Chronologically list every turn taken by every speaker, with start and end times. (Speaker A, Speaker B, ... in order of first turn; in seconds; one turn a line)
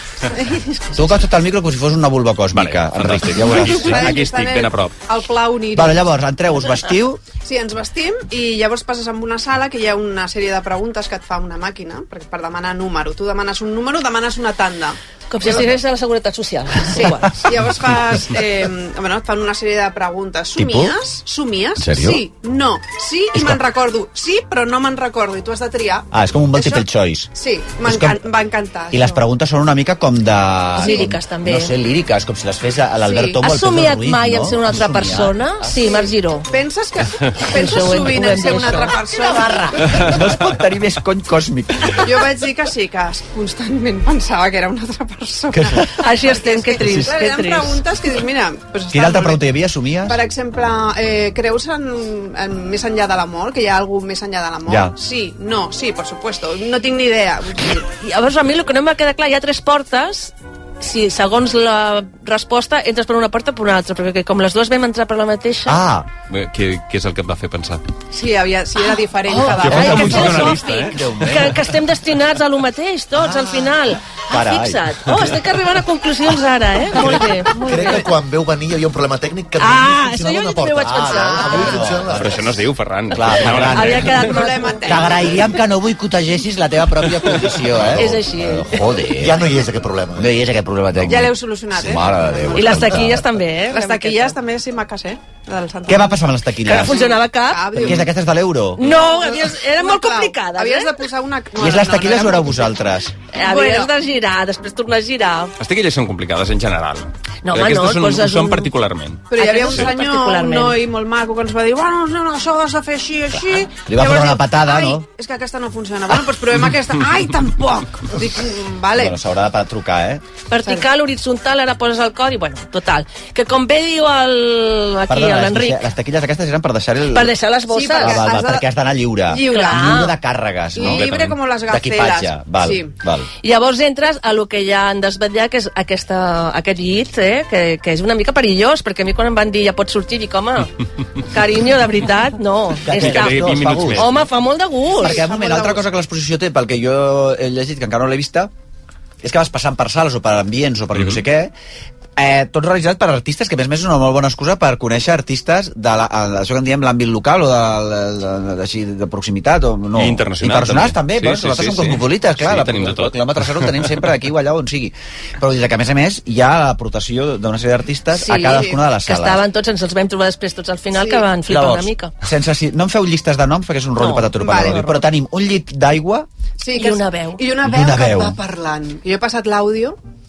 Speaker A: 0.3-1.0
Speaker B: 0.9-4.2
Speaker C: 2.5-5.0
Speaker A: 3.6-6.1
Speaker B: 5.7-7.2
Speaker A: 7.3-15.7
Speaker D: 15.3-17.3
Speaker A: 16.9-29.2
Speaker B: 20.6-21.0
Speaker B: 21.8-22.2
Speaker B: 23.4-23.6
Speaker B: 26.1-27.3
Speaker B: 27.8-28.2
Speaker B: 28.9-36.0
Speaker D: 30.8-31.7
Speaker A: 33.0-33.4
Speaker D: 33.4-36.5
Speaker A: 36.5-39.6
Speaker D: 37.5-39.0
Speaker B: 39.1-42.1
Speaker A: 42.0-49.5
Speaker B: 45.5-45.9
Speaker D: 46.0-47.8
Speaker B: 48.9-50.2
Speaker A: 50.1-57.9
Speaker B: 54.7-54.9
Speaker D: 58.0-65.8
Speaker B: 65.7-66.1
Speaker C: 66.3-67.8
Speaker A: 68.1-70.5
Speaker D: 69.3-78.1
Speaker B: 69.6-71.6
Speaker C: 69.6-71.2
Speaker B: 73.2-74.9
Speaker E: 77.0-82.6
Speaker D: 79.6-81.9
Speaker B: 80.8-82.3
Speaker C: 82.1-84.2
Speaker B: 83.1-84.2
Speaker D: 83.7-85.1
Speaker A: 84.2-85.4
Speaker B: 84.8-89.4
Speaker D: 88.0-88.8
Speaker E: 89.2-90.4
Speaker B: 90.2-93.2
Speaker A: 91.1-98.1
Speaker D: 92.5-94.4
Speaker B: 95.9-97.2
Speaker D: 96.7-98.0
Speaker B: 97.8-98.8
Speaker D: 98.8-101.0
Speaker A: 98.8-102.7
Speaker B: 101.6-103.1
Speaker D: 103.3-105.5
Speaker A: 103.4-103.9
Speaker C: 105.6-109.9
Speaker D: 107.5-108.7
Speaker A: 109.3-119.2
Speaker D: 109.3-110.8
Speaker B: 113.8-115.1
Speaker B: 118.9-120.2
Speaker D: 120.5-125.8
Speaker B: 125.1-127.3
Speaker D: 127.1-128.2
Speaker A: 127.7-128.7
Speaker B: 128.0-131.2
Speaker A: 129.3-129.9
Speaker D: 129.4-130.1
Speaker A: 130.7-132.9
Speaker C: 130.8-131.4
Speaker B: 131.7-133.3
Speaker D: 133.4-140.7
Speaker D: 141.3-145.3
Speaker B: 142.8-144.1
Speaker C: 143.0-144.2
Speaker A: 145.0-145.9
Speaker B: 145.0-148.5
Speaker B: 149.2-151.5
Speaker C: 150.9-151.2
Speaker B: 152.2-169.4
Speaker C: 160.0-163.9
Speaker D: 168.2-172.1
Speaker A: 168.4-168.8
Speaker A: 171.0-171.3
Speaker B: 171.5-176.3
Speaker D: 174.0-174.3
Speaker A: 174.4-175.1
Speaker A: 176.6-180.0
Speaker D: 176.7-177.4
Speaker B: 177.6-178.4